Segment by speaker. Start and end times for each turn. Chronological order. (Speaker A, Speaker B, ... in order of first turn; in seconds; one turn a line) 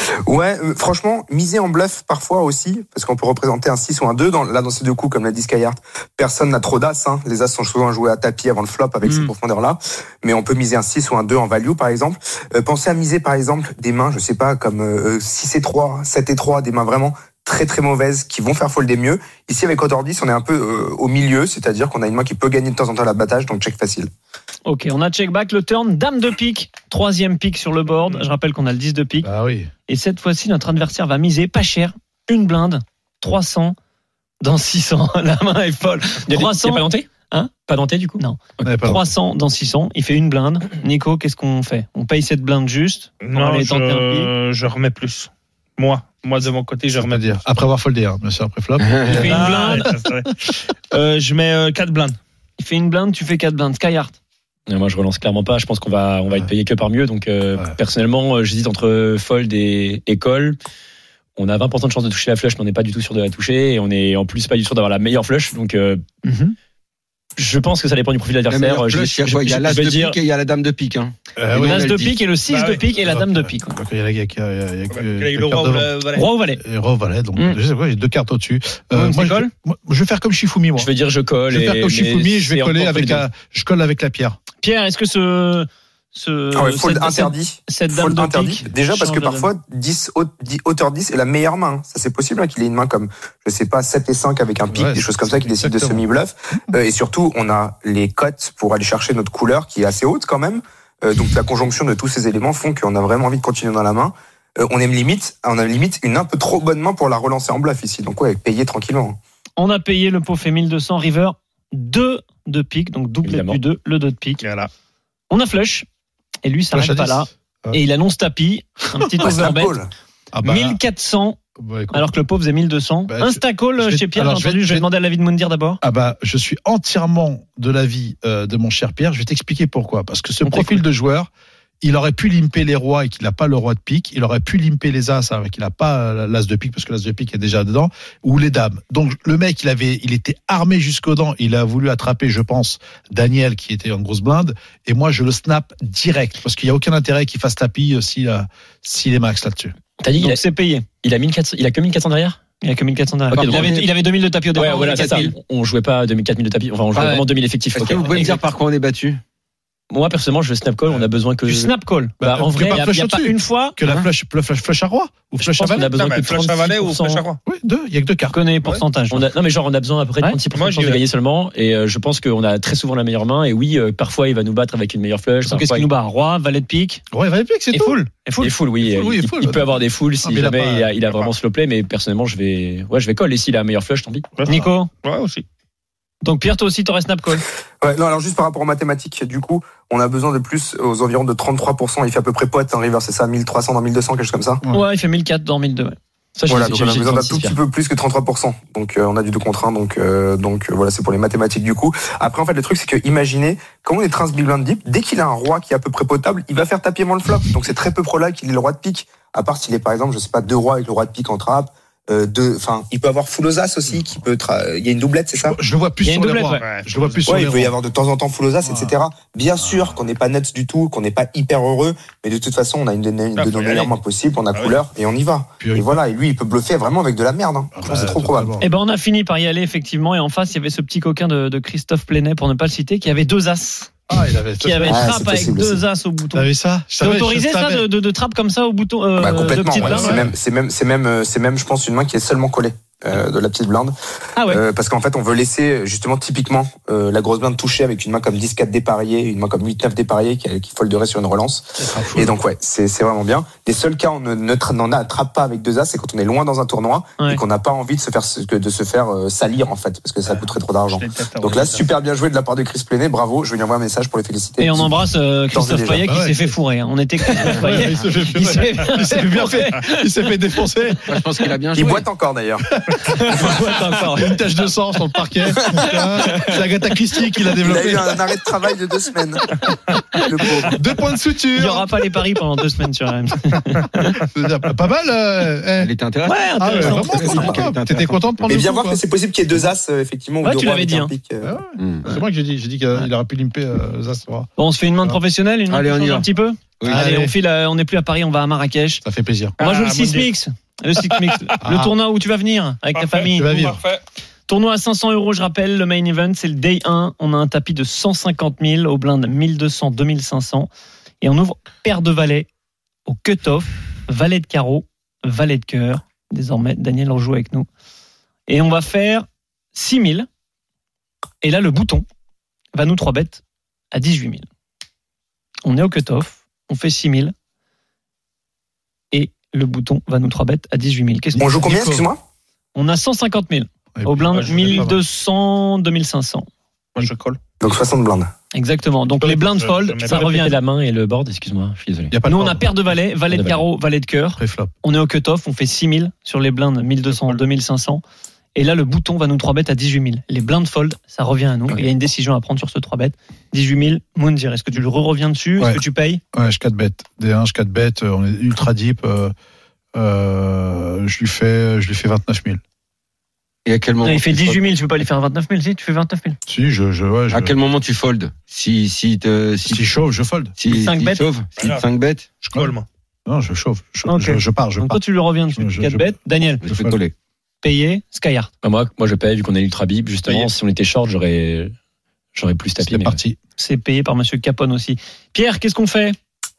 Speaker A: 0.2-24.1
Speaker B: 24.6-29.3
Speaker C: 29.2-29.7
Speaker B: 29.9-33.8
Speaker B: 34.4-37.5
Speaker D: 36.3-37.1
Speaker D: 37.7-38.7
Speaker B: 38.2-44.3
Speaker C: 38.6-39.1
Speaker E: 43.2-47.4
Speaker C: 47.0-50.0
Speaker F: 48.8-49.2
Speaker B: 49.1-49.9
Speaker E: 49.2-52.2
Speaker B: 52.6-54.2
Speaker D: 54.7-60.6
Speaker D: 61.4-66.0
Speaker B: 66.2-66.5
Speaker D: 67.4-70.2
Speaker F: 68.5-72.2
Speaker C: 71.4-71.9
Speaker B: 71.6-73.8
Speaker E: 72.5-72.9
Speaker C: 73.0-76.0
Speaker E: 74.9-76.3
Speaker B: 76.2-76.6
Speaker C: 76.5-80.9
Speaker B: 78.9-79.5
Speaker D: 80.8-83.2
Speaker C: 81.5-84.4
Speaker B: 84.6-89.5
Speaker A: 86.5-109.2
Speaker C: 94.7-96.1
Speaker B: 109.6-114.4
Speaker D: 113.2-113.6
Speaker E: 114.4-114.7
Speaker B: 115.3-115.8
Speaker B: 116.4-119.8
Speaker C: 116.7-117.8
Speaker A: 119.2-119.9
Speaker C: 120.3-120.8
Speaker B: 120.4-121.4
Speaker C: 121.6-122.1
Speaker B: 121.9-125.8
Speaker C: 123.1-124.9
Speaker C: 125.8-131.3
Speaker B: 130.4-130.8
Speaker C: 131.8-149.8
Speaker D: 150.0-150.5
Speaker B: 150.2-150.8
Speaker D: 151.0-152.4
Speaker B: 152.6-155.3
Speaker F: 153.3-154.0
Speaker D: 153.3-153.8
Speaker D: 154.5-158.4
Speaker F: 154.7-155.3
Speaker F: 156.9-159.2
Speaker D: 159.9-162.8
Speaker B: 161.4-163.8
Speaker C: 162.2-165.9
Speaker E: 165.6-167.4
Speaker D: 165.6-167.2
Speaker C: 167.5-168.8
Speaker B: 168.3-169.3
Speaker D: 169.1-175.9
Speaker E: 170.5-171.0
Speaker B: 175.4-177.0
Speaker C: 177.1-178.0
Speaker B: 177.7-178.5
Speaker D: 178.4-184.3
Speaker C: 178.8-181.2
Speaker E: 184.4-185.4
Speaker B: 184.5-184.9
Speaker B: 186.2-187.4
Speaker A: 187.8-194.6
Speaker B: 194.7-196.0
Speaker D: 196.3-197.6
Speaker A: 196.5-215.6
Speaker C: 215.4-217.8
Speaker B: 216.0-216.7
Speaker E: 216.6-217.3
Speaker A: 217.2-228.5
Speaker C: 218.6-219.0
Speaker C: 219.6-220.0
Speaker E: 223.3-224.0
Speaker C: 225.6-226.0
Speaker C: 227.8-228.7
Speaker B: 228.6-233.9
Speaker C: 234.1-235.1
Speaker B: 234.6-236.5
Speaker A: 234.9-235.8
Speaker C: 236.3-237.9
Speaker B: 237.0-240.2
Speaker A: 239.2-265.0
Speaker C: 239.4-240.3
Speaker B: 244.3-244.6
Speaker C: 251.8-252.3
Speaker E: 260.3-261.9
Speaker B: 264.6-270.1
Speaker A: 265.5-266.1
Speaker C: 266.1-266.5
Speaker C: 267.4-271.3
Speaker F: 267.5-267.9
Speaker F: 271.1-272.1
Speaker A: 271.8-272.6
Speaker C: 272.6-278.2
Speaker B: 273.1-274.4
Speaker D: 273.4-274.1
Speaker D: 276.2-276.5
Speaker A: 277.6-279.6
Speaker A: 280.2-280.8
Speaker C: 280.7-281.9
Speaker B: 281.5-284.1
Speaker C: 284.2-285.9
Speaker F: 285.8-288.6
Speaker B: 286.2-287.6
Speaker C: 286.5-289.0
Speaker A: 288.5-291.5
Speaker B: 290.4-291.1
Speaker C: 291.4-294.5
Speaker F: 291.8-292.1
Speaker B: 294.6-299.0
Speaker F: 295.7-296.3
Speaker C: 296.8-297.4
Speaker C: 299.0-299.6
Speaker E: 299.6-300.3
Speaker B: 299.6-303.6
Speaker C: 301.6-301.9
Speaker E: 302.9-304.0
Speaker C: 303.3-303.8
Speaker B: 304.5-310.7
Speaker B: 311.2-312.5
Speaker B: 313.1-317.7
Speaker B: 318.5-320.3
Speaker B: 321.4-322.0
Speaker B: 322.7-324.5
Speaker B: 325.6-327.3
Speaker B: 329.1-331.6
Speaker C: 331.3-332.1
Speaker A: 331.4-332.2
Speaker B: 332.7-336.5
Speaker C: 333.9-335.0
Speaker E: 334.3-334.9
Speaker E: 336.9-337.4
Speaker A: 337.6-338.3
Speaker B: 338.5-340.5
Speaker E: 339.3-340.5
Speaker D: 340.1-342.1
Speaker C: 342.1-343.0
Speaker B: 342.2-348.0
Speaker D: 343.3-343.6
Speaker C: 344.4-344.7
Speaker B: 348.6-356.2
Speaker C: 356.3-359.3
Speaker C: 359.9-362.6
Speaker F: 363.6-364.7
Speaker B: 364.0-366.4
Speaker C: 366.5-367.6
Speaker F: 367.3-369.9
Speaker C: 369.7-370.6
Speaker F: 370.6-372.3
Speaker B: 370.7-371.2
Speaker E: 371.6-371.9
Speaker E: 372.4-372.9
Speaker C: 373.2-375.0
Speaker B: 374.1-376.6
Speaker C: 375.6-377.0
Speaker F: 376.6-377.1
Speaker B: 377.6-378.5
Speaker D: 378.6-381.7
Speaker E: 380.2-380.5
Speaker D: 382.4-383.2
Speaker C: 382.8-383.4
Speaker B: 383.6-386.2